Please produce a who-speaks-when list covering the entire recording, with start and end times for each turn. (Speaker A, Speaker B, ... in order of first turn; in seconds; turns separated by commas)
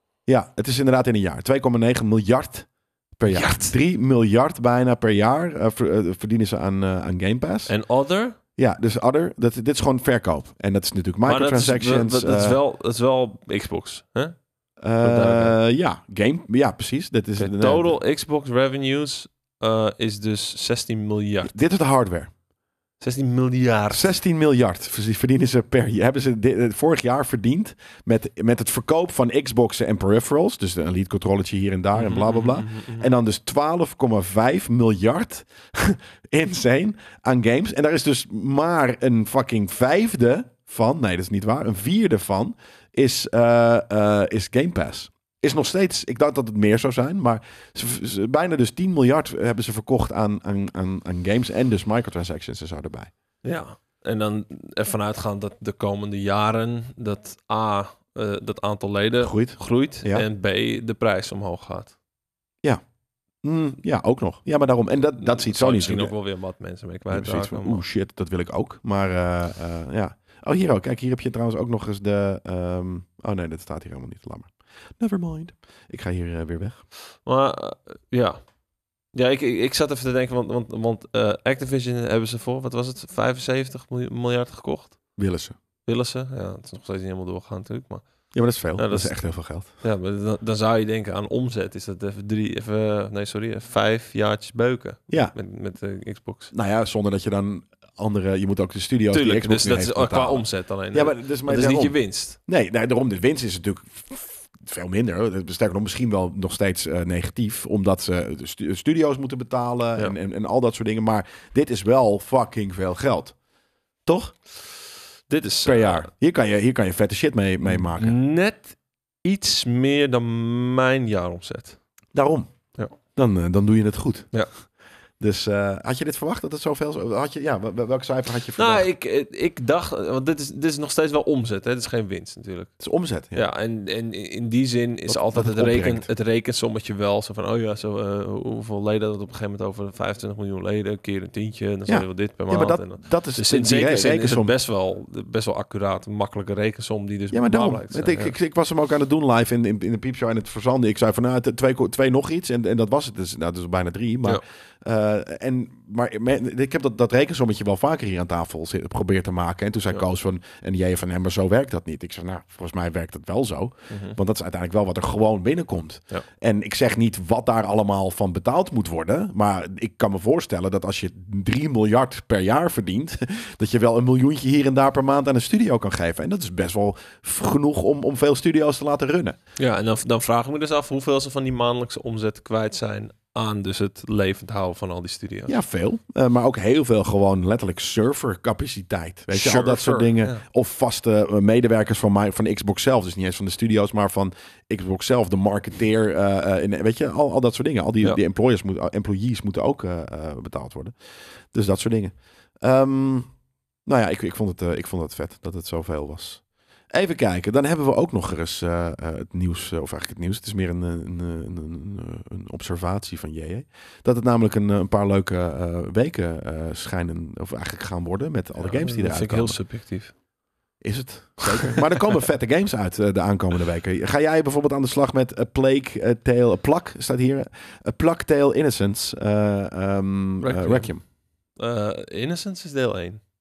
Speaker A: 0.3-7.8, Speaker B: 3.3-3.8, Speaker B: 7.7-8.4, Speaker A: 8.6-12.6, Speaker B: 11.3-14.4, Speaker A: 14.8-18.0, Speaker B: 15.0-15.6, Speaker B: 17.4-21.5, Speaker A: 21.4-22.3, Speaker B: 23.0-24.1, Speaker A: 23.9-53.1, Speaker B: 31.9-33.1, Speaker B: 53.4-61.9, Speaker A: 59.2-60.3, Speaker A: 63.4-66.1, Speaker B: 65.2-67.8, Speaker A: 67.1-76.8, Speaker B: 77.2-78.4, Speaker B: 79.1-85.0, Speaker A: 85.2-85.5, Speaker B: 85.9-96.5, Speaker A: 88.3-89.7, Speaker A: 95.1-95.3, Speaker A: 96.5-113.3, Speaker B: 99.1-102.4, Speaker A: 114.1-114.3, Speaker B: 115.3-116.1, Speaker A: 115.6-118.2, Speaker B: 117.6-121.8, Speaker A: 122.1-122.5, Speaker A: 123.1-124.3, Speaker A: 125.2-128.9, Speaker B: 128.6-132.8, Speaker A: 132.8-133.4, Speaker B: 133.3-148.3, Speaker A: 135.1-136.1, Speaker A: 141.9-144.5, Speaker A: 147.3-179.4, Speaker B: 163.9-164.2, Speaker B: 179.6-185.5, Speaker A: 185.5-200.9, Speaker B: 189.3-190.4, Speaker A: 201.5-203.3, Speaker A: 203.8-219.6, Speaker B: 218.6-220.1, Speaker A: 220.8-231.0, Speaker B: 221.4-222.2, Speaker B: 230.4-230.9, Speaker B: 231.6-233.2